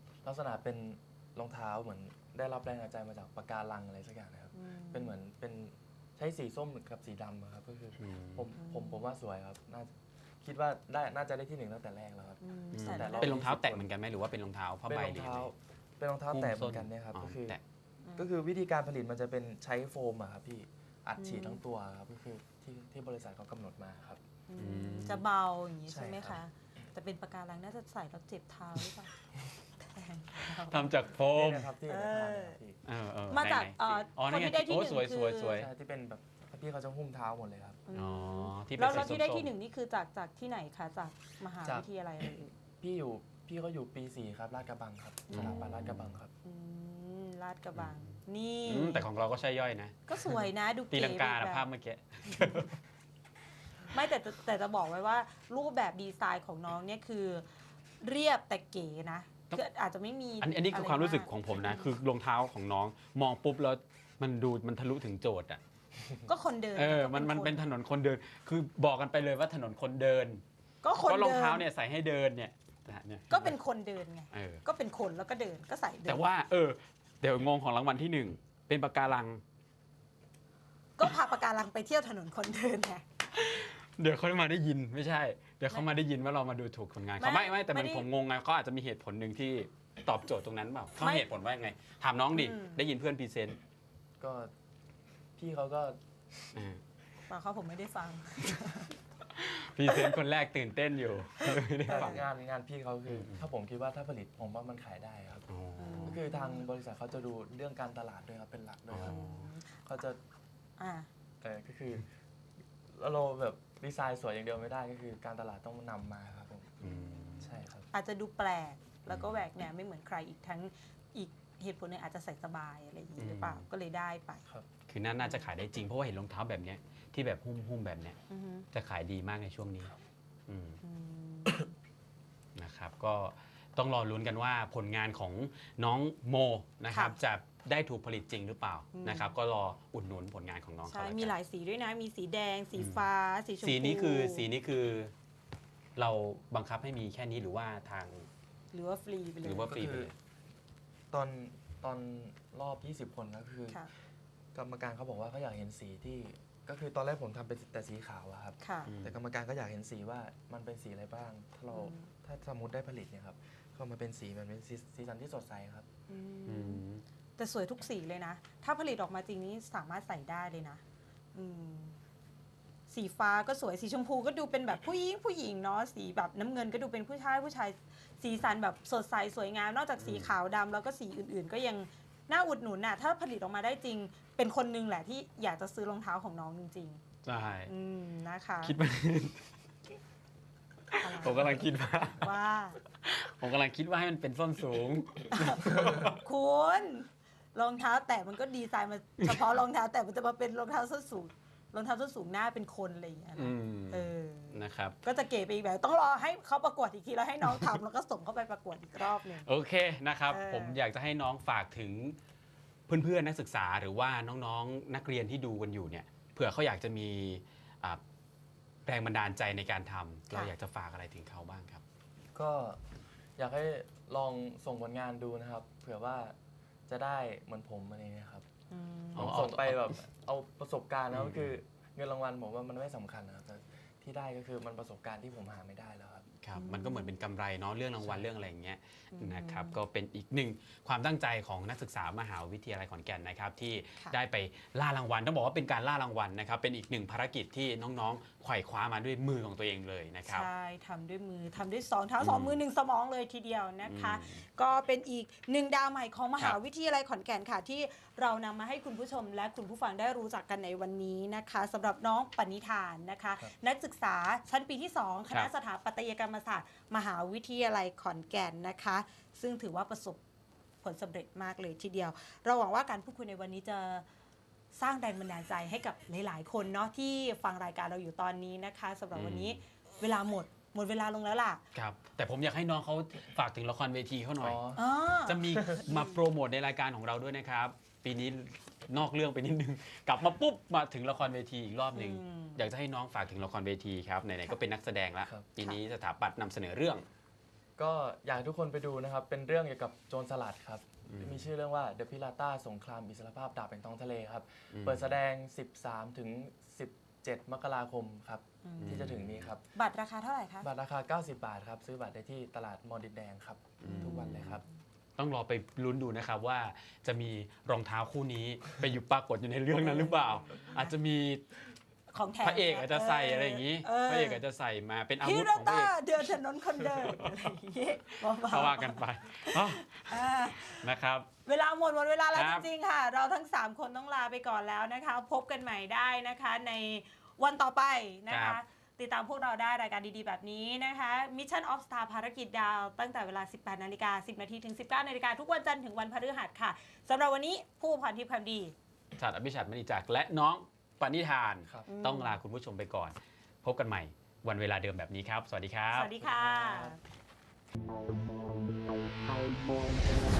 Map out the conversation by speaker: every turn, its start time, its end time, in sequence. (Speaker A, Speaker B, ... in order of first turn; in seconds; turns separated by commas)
Speaker A: 0.2-13.9, Speaker B: 4.5-5.1, Speaker C: 8.0-8.4, Speaker B: 8.6-9.0, Speaker B: 12.4-13.3, Speaker C: 12.7-15.5, Speaker A: 14.9-17.6, Speaker C: 16.3-17.6, Speaker A: 18.1-24.2, Speaker B: 21.2-21.6, Speaker B: 24.5-29.1, Speaker C: 24.6-25.2, Speaker A: 25.9-26.4, Speaker B: 29.8-30.9, Speaker C: 30.4-31.7, Speaker A: 31.3-32.8, Speaker B: 31.9-32.6, Speaker C: 32.8-35.7, Speaker B: 33.3-35.6, Speaker A: 35.5-37.8, Speaker B: 37.9-42.5, Speaker C: 37.9-39.5, Speaker A: 42.8-46.3, Speaker B: 45.3-45.6, Speaker C: 45.3-46.1, Speaker B: 46.4-49.0, Speaker C: 47.7-48.1, Speaker C: 48.6-52.7, Speaker B: 50.1-51.7, Speaker B: 53.9-57.4, Speaker B: 58.0-61.9, Speaker C: 60.4-65.6, Speaker B: 66.2-67.7, Speaker C: 66.7-70.4, Speaker B: 70.8-71.7, Speaker C: 71.0-73.5, Speaker B: 73.3-76.2, Speaker C: 74.3-74.6, Speaker C: 76.0-79.4, Speaker B: 81.0-83.0, Speaker C: 83.3-93.6, Speaker B: 87.2-88.0, Speaker B: 91.0-91.3, Speaker B: 92.3-92.8, Speaker A: 94.2-94.5, Speaker A: 95.4-96.0, Speaker C: 96.5-96.8, Speaker B: 97.3-98.9, Speaker C: 99.3-102.3, Speaker B: 99.9-100.2, Speaker B: 101.4-102.2, Speaker A: 101.9-105.5, Speaker C: 103.1-103.5, Speaker C: 105.5-106.2, Speaker B: 105.8-106.7, Speaker A: 106.0-109.2, Speaker C: 108.9-109.5, Speaker B: 109.0-109.7, Speaker A: 109.8-110.2, Speaker B: 110.8-111.1, Speaker A: 111.4-112.0, Speaker A: 112.9-116.8, Speaker C: 116.8-117.6, Speaker B: 116.8-124.4, Speaker A: 117.4-117.9, Speaker C: 119.1-119.4, Speaker C: 123.2-123.7, Speaker C: 124.9-128.2, Speaker B: 125.2-125.5, Speaker B: 128.3-128.7, Speaker C: 128.7-129.9, Speaker C: 130.5-130.8, Speaker B: 130.8-131.7, Speaker C: 132.6-141.3, Speaker B: 136.9-137.2, Speaker B: 138.9-139.3, Speaker B: 140.8-144.5, Speaker C: 142.7-143.0, Speaker C: 143.6-145.1, Speaker C: 145.9-148.3, Speaker B: 148.7-149.7, Speaker C: 149.4-150.1, Speaker A: 149.7-150.1, Speaker A: 151.1-153.8, Speaker A: 154.5-165.8, Speaker B: 158.6-158.9, Speaker C: 158.9-159.2, Speaker B: 161.7-162.1, Speaker B: 166.1-166.8, Speaker C: 166.4-167.0, Speaker B: 167.4-170.8, Speaker B: 171.3-172.0, Speaker B: 172.9-187.0, Speaker C: 180.0-180.3, Speaker C: 187.2-187.7, Speaker B: 187.7-188.8, Speaker C: 188.6-189.4, Speaker C: 190.9-192.3, Speaker B: 191.0-192.8, Speaker C: 192.9-196.2, Speaker B: 195.3-209.5, Speaker C: 203.3-205.0, Speaker C: 209.4-212.2, Speaker B: 210.3-210.8, Speaker C: 212.9-218.0, Speaker C: 218.8-221.8, Speaker A: 222.3-222.8, Speaker A: 223.4-226.3, Speaker A: 226.9-228.4, Speaker B: 228.7-229.3, Speaker C: 229.1-229.9, Speaker A: 229.1-236.2, Speaker C: 231.1-231.6, Speaker C: 236.4-250.5, Speaker B: 236.6-237.1, Speaker B: 239.1-239.8, Speaker B: 250.2-270.2, Speaker C: 252.2-252.6, Speaker C: 253.8-254.4, Speaker B: 270.8-274.0, Speaker B: 274.7-281.6, Speaker C: 279.1-279.6, Speaker C: 281.7-284.6, Speaker A: 284.4-284.8, Speaker B: 284.8-286.2, Speaker C: 285.2-297.1, Speaker B: 291.9-292.6, Speaker A: 297.8-309.6, Speaker C: 301.1-301.5, Speaker C: 304.7-305.1, Speaker B: 308.6-309.1, Speaker C: 308.8-309.5, Speaker B: 309.7-310.7, Speaker A: 310.6-314.6, Speaker C: 313.8-314.6, Speaker B: 313.9-314.7, Speaker C: 315.2-321.4, Speaker B: 319.8-320.9, Speaker B: 322.1-324.4, Speaker C: 322.4-326.0, Speaker B: 325.2-330.9, Speaker C: 326.9-327.5, Speaker C: 328.4-331.3, Speaker B: 331.4-348.7, Speaker C: 332.3-332.7, Speaker C: 338.3-338.6, Speaker C: 349.1-356.1, Speaker B: 351.9-352.4, Speaker B: 355.9-357.0, Speaker A: 356.2-357.0